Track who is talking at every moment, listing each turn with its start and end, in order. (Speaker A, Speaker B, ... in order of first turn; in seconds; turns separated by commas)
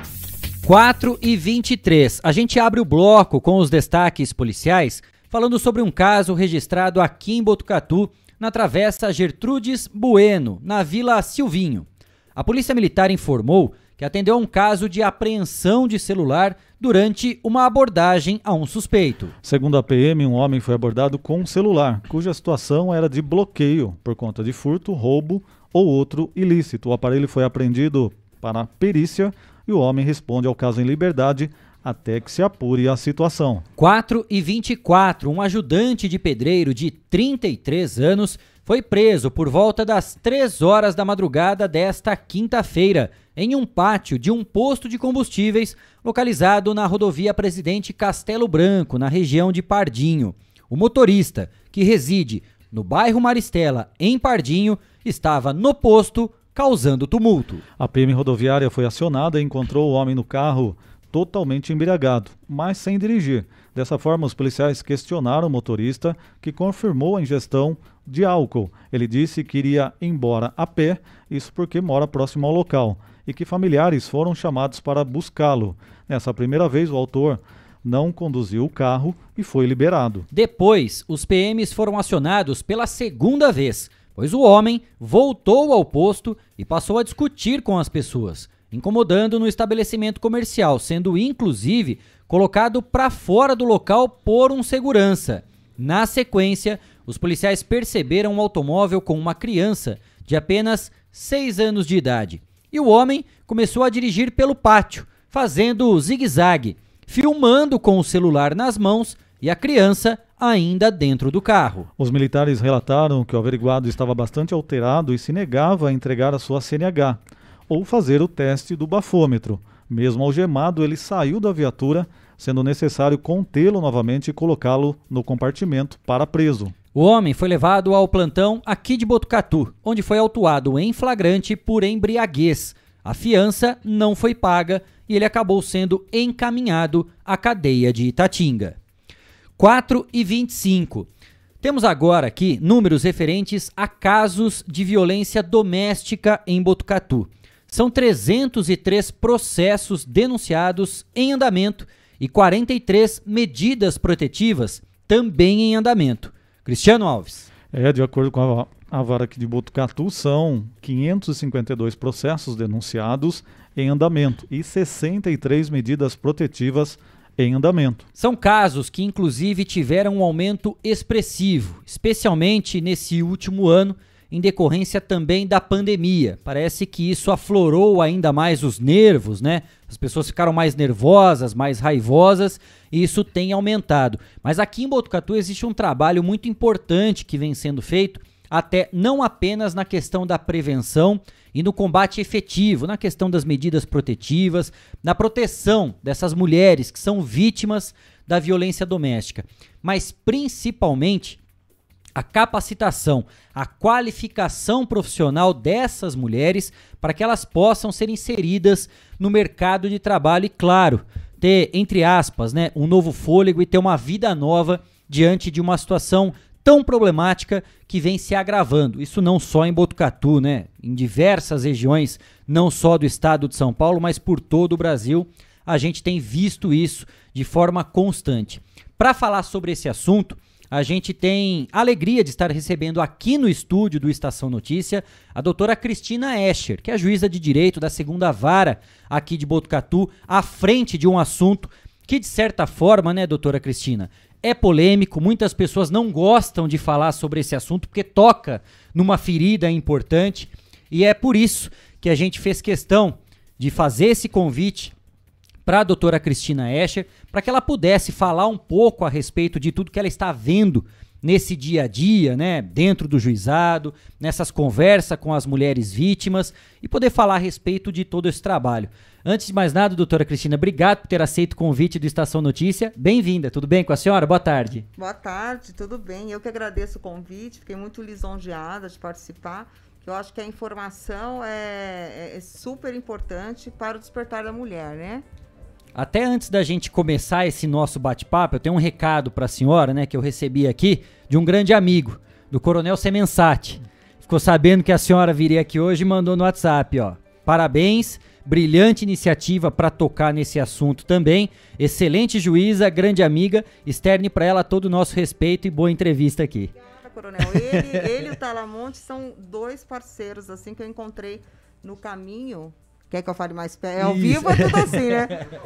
Speaker A: 0.7-19.3, Speaker B: 19.4-33.7, Speaker A: 33.8-57.6, Speaker B: 57.8-80.3, Speaker A: 80.3-111.9, Speaker B: 112.0-126.7, Speaker A: 126.9-138.8, Speaker A: 139.6-141.1, Speaker A: 141.6-157.5, Speaker B: 157.7-168.1, Speaker A: 168.2-201.4, Speaker A: 202.2-254.9, Speaker A: 255.7-274.9, Speaker C: 275.0-285.2, Speaker A: 285.9-306.7, Speaker C: 306.8-315.5, Speaker A: 314.0-315.0